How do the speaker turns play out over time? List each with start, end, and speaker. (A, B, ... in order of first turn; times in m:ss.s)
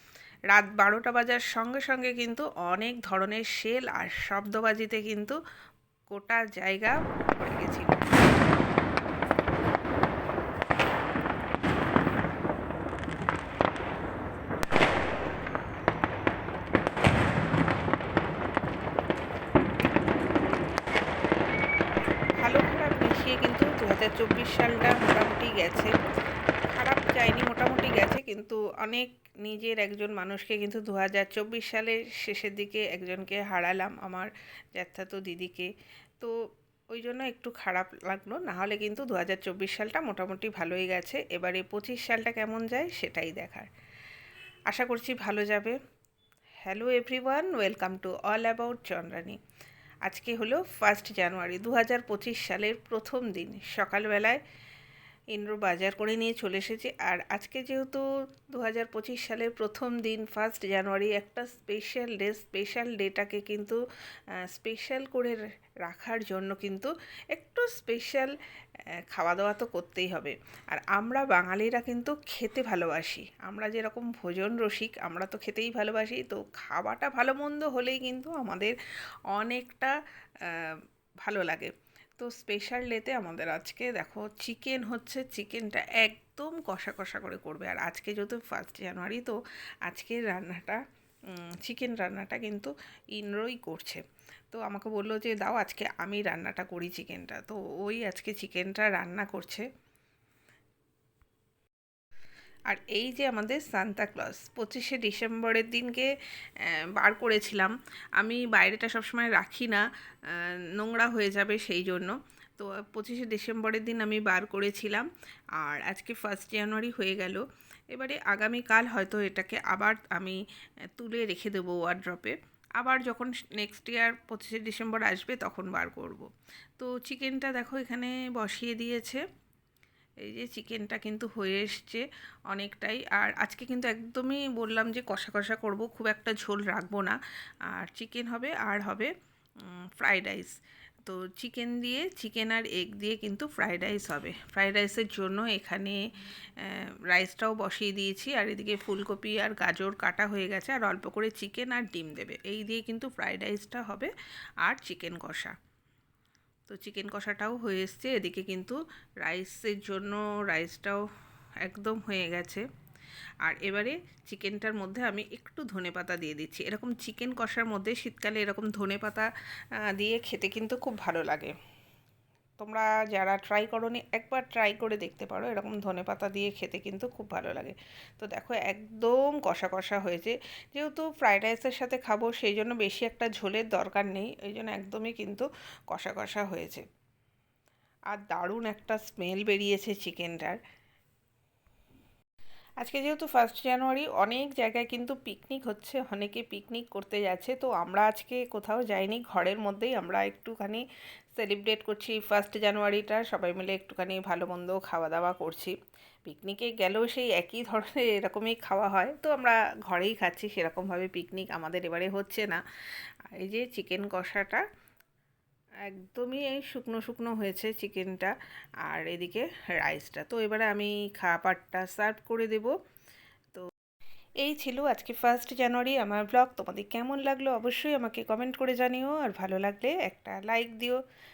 0:00.5-0:05.4 A
0:06.1-0:08.0 A
0:22.4-0:26.0 A
0:26.7-0:36.4 A
0:36.9-0:43.7 A
0:44.7-0:45.8 A
0:46.6-0:49.4 A
0:50.0-0:54.4 A
0:55.3-1:03.8 A
1:04.5-1:08.3 A
1:09.1-1:18.7 A
1:19.3-1:39.6 A
1:42.7-1:55.1 A
1:55.6-2:00.4 A
2:00.9-2:09.2 A
2:10.2-2:19.1 A
2:19.6-2:26.0 A
2:26.6-2:34.1 A
2:34.6-2:35.5 A
2:36.7-2:41.0 A
2:41.6-2:42.6 A
2:43.4-2:49.3 A
2:49.9-2:51.5 A
2:52.6-3:06.8 A
3:08.1-3:10.6 A
3:12.8-3:20.8 A
3:21.4-3:32.6 A
3:33.3-3:34.6 A
3:35.8-3:38.3 A
3:38.8-3:42.7 A
3:44.4-3:51.0 A